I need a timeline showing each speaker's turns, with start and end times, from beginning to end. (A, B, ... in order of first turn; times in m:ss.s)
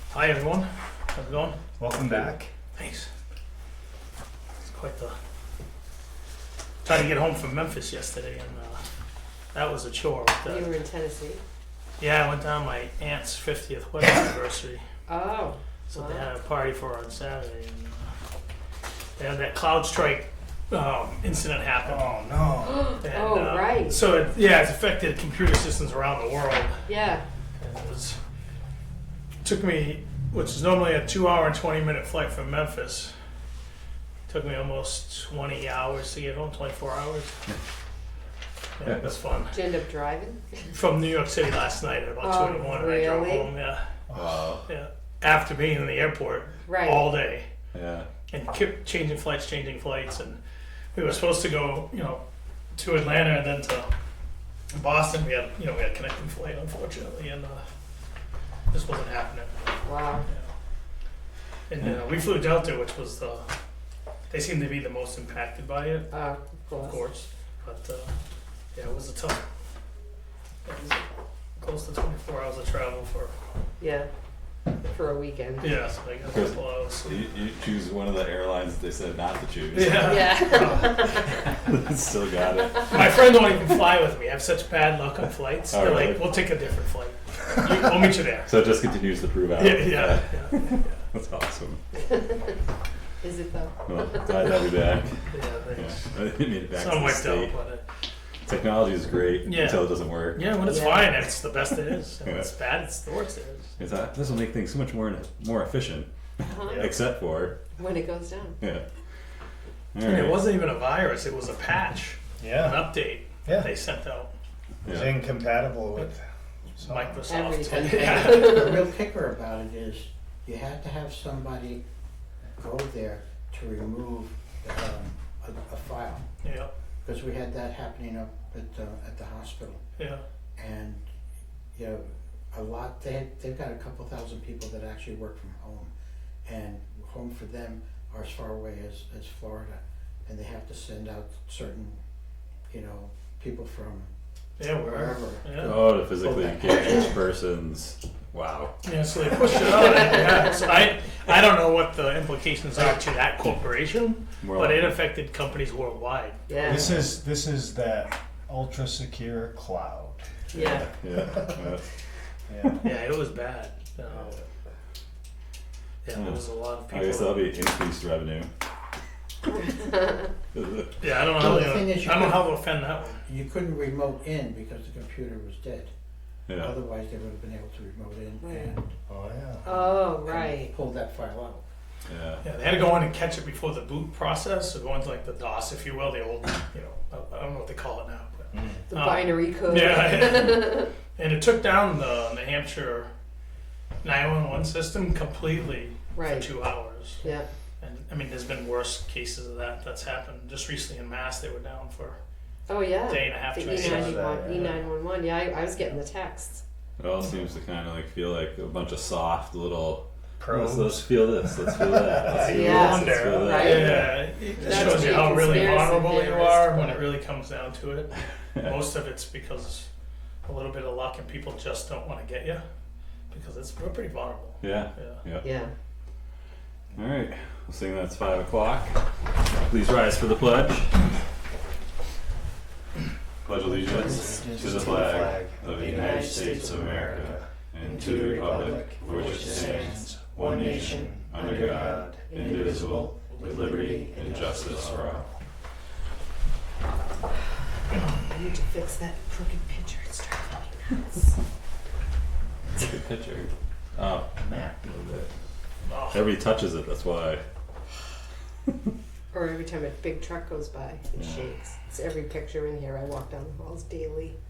0:00.1-0:01.6 A
0:01.8-0:02.5 B
0:02.8-0:03.1 A
0:04.6-0:05.2 A
0:06.8-0:08.8 A
0:09.5-0:10.7 A
0:10.4-0:11.4 C
0:12.0-0:14.8 A
0:15.1-0:16.3 C
0:15.9-0:18.1 A
0:19.2-0:22.1 A
0:21.8-0:22.9 B
0:22.6-0:24.0 C
0:23.0-0:26.8 A
0:26.8-0:27.2 C
0:27.6-0:28.2 A
0:29.4-0:33.1 A
0:34.3-0:37.4 A
0:38.8-0:39.6 A
0:39.5-0:40.7 C
0:40.7-0:43.9 A
0:42.2-0:43.5 C
0:44.1-0:44.5 B
0:44.1-0:44.6 D
0:44.7-0:47.5 A
0:46.6-0:47.1 C
0:47.7-0:48.1 D
0:48.3-0:50.4 A
0:50.9-0:52.2 A
0:52.7-0:53.9 A
0:54.7-0:57.6 A
0:58.7-0:59.5 A
0:59.8-1:00.2 C
1:01.7-1:03.5 A
1:04.3-1:06.1 A
1:06.1-1:07.0 C
1:06.7-1:08.1 A
1:08.7-1:09.4 A
1:10.6-1:13.3 A
1:13.8-1:14.1 C
1:14.8-1:15.8 C
1:15.6-1:17.2 A
1:16.3-1:20.6 D
1:19.7-1:21.2 A
1:20.0-1:21.3 C
1:21.6-1:23.2 D
1:22.9-1:28.5 A
1:25.7-1:26.3 D
1:28.4-1:31.8 D
1:29.6-1:31.0 A
1:32.1-1:32.4 C
1:33.2-1:34.4 C
1:33.9-1:35.2 D
1:35.3-1:36.0 A
1:35.7-1:37.5 D
1:36.7-1:37.8 A
1:38.4-1:40.9 D
1:39.4-1:43.7 A
1:40.6-1:41.2 C
1:42.2-1:42.5 D
1:43.8-1:46.1 D
1:46.4-1:46.9 C
1:46.6-1:47.6 D
1:46.6-1:46.9 B
1:47.8-1:48.6 C
1:49.9-1:50.5 D
1:50.0-1:54.3 A
1:52.4-1:53.7 B
1:54.8-1:55.2 D
1:54.8-1:56.3 B
1:56.8-1:57.1 B
1:56.8-1:58.8 A
1:57.3-1:58.9 C
1:57.7-2:01.8 E
2:02.6-2:06.2 E
2:06.4-2:06.7 A
2:07.0-2:09.8 E
2:10.0-2:10.2 A
2:10.6-2:11.0 E
2:11.7-2:15.9 E
2:16.4-2:22.0 E
2:22.7-2:24.1 E
2:24.6-2:25.8 A
2:24.7-2:27.1 E
2:25.6-2:28.7 D
2:28.8-2:36.4 A
2:34.4-2:34.9 D
2:36.5-2:36.9 C
2:36.6-2:40.5 B
2:36.7-2:37.1 D
2:40.5-2:40.8 C
2:40.5-2:41.8 D
2:42.5-2:42.8 B
2:42.8-2:44.4 A
2:46.0-2:47.5 A
2:46.1-2:48.5 D
2:49.7-2:50.3 C
2:50.5-2:51.1 D
2:51.0-2:53.2 A
2:51.3-2:52.5 E
2:53.2-2:55.9 E
2:56.5-2:56.7 D
2:56.6-2:58.9 E
2:58.4-2:58.7 C
2:59.1-2:59.7 B
2:59.6-3:01.6 E
2:59.6-3:00.7 C
3:02.1-3:02.4 D
3:02.4-3:13.1 A
3:08.5-3:08.8 B
3:08.9-3:10.9 C
3:14.0-3:17.2 A
3:16.1-3:16.5 C
3:17.2-3:17.5 C
3:17.8-3:22.2 A
3:22.7-3:26.6 C
3:23.1-3:24.8 A
3:23.6-3:24.8 B
3:27.0-3:34.1 D
3:30.4-3:35.8 B
3:32.4-3:37.1 C
3:32.5-3:39.9 A
3:38.6-3:38.8 D
3:40.4-3:42.6 A
3:43.3-3:45.2 A
3:44.6-3:45.5 D
3:45.4-3:45.7 C
3:47.0-3:51.0 D
3:53.4-4:05.2 D
3:53.7-4:05.2 B
3:54.0-3:55.0 C
3:55.8-3:57.1 C
3:57.9-4:05.1 C
4:08.2-4:11.3 C
4:12.7-4:15.3 D
4:15.8-4:16.2 A
4:16.1-4:17.4 D
4:19.3-4:24.4 C
4:21.2-4:21.4 D